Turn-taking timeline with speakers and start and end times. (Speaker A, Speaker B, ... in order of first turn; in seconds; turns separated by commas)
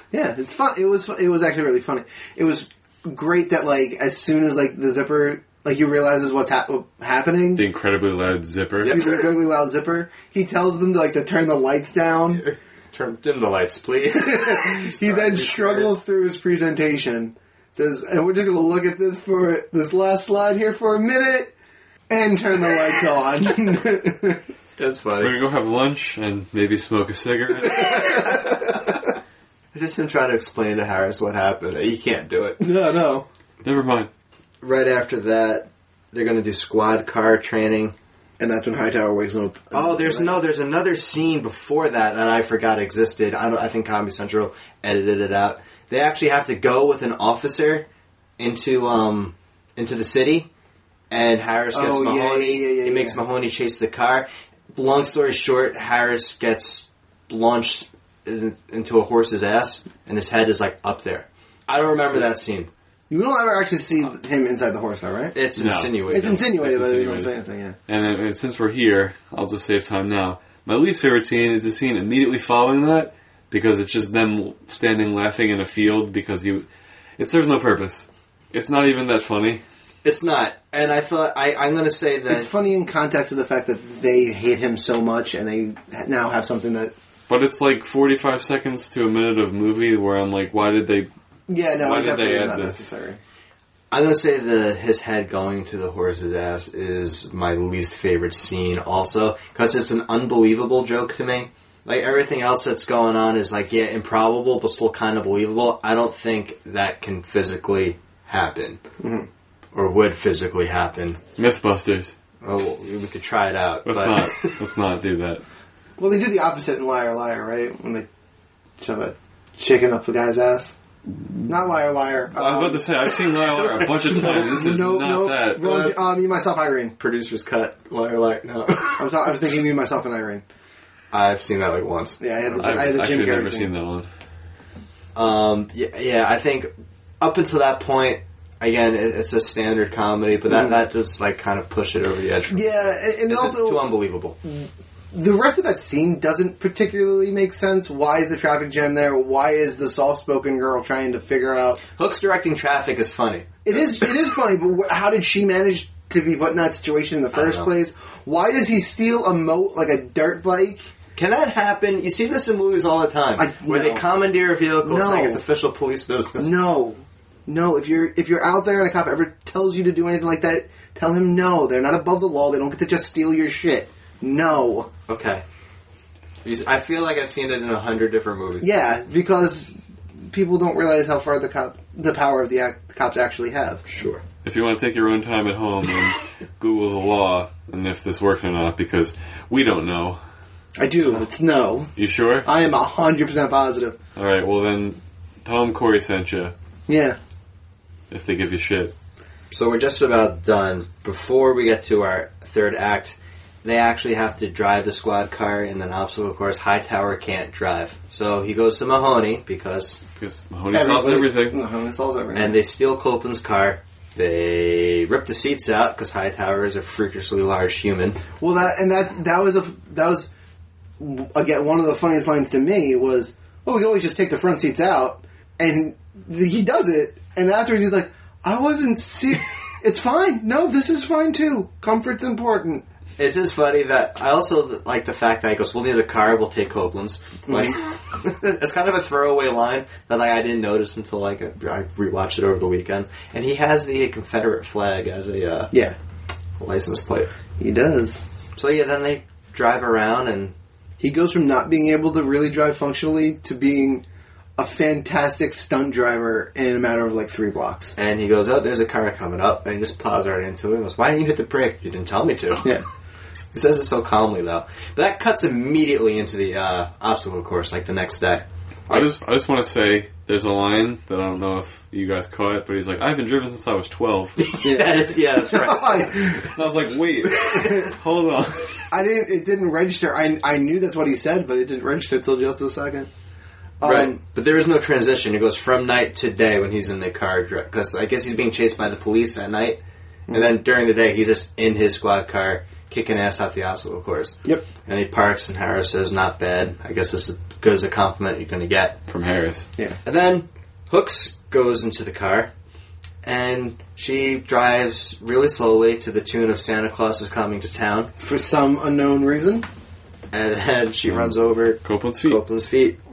Speaker A: 0.1-7.6, Speaker B: 7.5-9.0, Speaker C: 8.8-9.2, Speaker A: 8.8-12.4, Speaker C: 12.3-15.9, Speaker A: 14.1-21.5, Speaker A: 22.1-24.4, Speaker C: 24.8-25.3, Speaker B: 25.2-28.5, Speaker A: 27.8-28.7, Speaker C: 29.7-32.6, Speaker A: 32.6-33.2, Speaker B: 33.6-34.1, Speaker C: 34.6-37.9, Speaker A: 38.4-40.4, Speaker C: 39.7-47.9, Speaker C: 48.4-50.5, Speaker C: 51.1-62.7, Speaker A: 51.7-53.2, Speaker A: 63.1-65.3, Speaker C: 65.3-66.4, Speaker B: 65.5-67.3, Speaker A: 66.1-67.8, Speaker B: 67.9-76.7, Speaker B: 77.2-79.6, Speaker C: 80.0-82.5, Speaker A: 82.3-86.9, Speaker B: 87.3-91.1, Speaker A: 91.5-93.2, Speaker B: 91.8-92.9, Speaker C: 93.9-108.8, Speaker A: 109.0-109.3, Speaker C: 109.7-111.2, Speaker B: 111.4-112.1, Speaker C: 112.4-114.5, Speaker B: 113.8-115.4, Speaker A: 116.0-118.1, Speaker A: 118.8-120.7, Speaker A: 121.5-122.9, Speaker B: 122.3-125.8, Speaker A: 124.0-126.9, Speaker C: 125.6-125.9, Speaker C: 127.0-129.3, Speaker A: 129.0-130.4, Speaker C: 131.1-132.2, Speaker A: 132.2-133.7, Speaker B: 132.5-134.1, Speaker C: 135.1-144.4, Speaker A: 142.5-143.9, Speaker A: 144.4-151.8, Speaker C: 151.9-153.9, Speaker A: 153.6-160.9, Speaker C: 157.3-157.7, Speaker C: 161.2-166.6, Speaker A: 163.4-164.0, Speaker A: 164.8-165.4, Speaker A: 166.4-174.9, Speaker C: 175.1-175.4, Speaker C: 176.4-178.7, Speaker A: 178.6-179.8, Speaker A: 180.3-183.8, Speaker C: 183.9-184.2, Speaker B: 184.4-190.2, Speaker A: 190.8-191.9, Speaker B: 191.9-192.5, Speaker A: 192.4-193.9, Speaker B: 194.2-196.5, Speaker A: 196.9-197.2, Speaker B: 198.1-198.9, Speaker C: 199.5-210.0, Speaker B: 210.2-211.6, Speaker A: 210.7-212.6, Speaker C: 212.3-218.2, Speaker A: 218.4-220.3, Speaker A: 221.0-232.8, Speaker C: 233.2-245.7, Speaker A: 237.5-237.7, Speaker C: 246.6-247.3, Speaker A: 247.6-248.2, Speaker C: 248.6-250.5, Speaker A: 251.0-254.0, Speaker A: 254.6-257.9, Speaker C: 257.9-262.7, Speaker C: 263.5-269.2, Speaker B: 268.9-274.5, Speaker C: 274.4-276.3, Speaker A: 274.6-276.5, Speaker B: 276.4-278.9, Speaker C: 277.3-277.8, Speaker A: 277.5-277.9, Speaker A: 278.9-283.1, Speaker A: 283.8-284.2, Speaker C: 283.8-299.0, Speaker B: 299.1-299.6, Speaker C: 300.0-302.5, Speaker C: 303.2-308.1, Speaker A: 308.2-309.6, Speaker C: 310.3-313.0, Speaker B: 311.8-312.4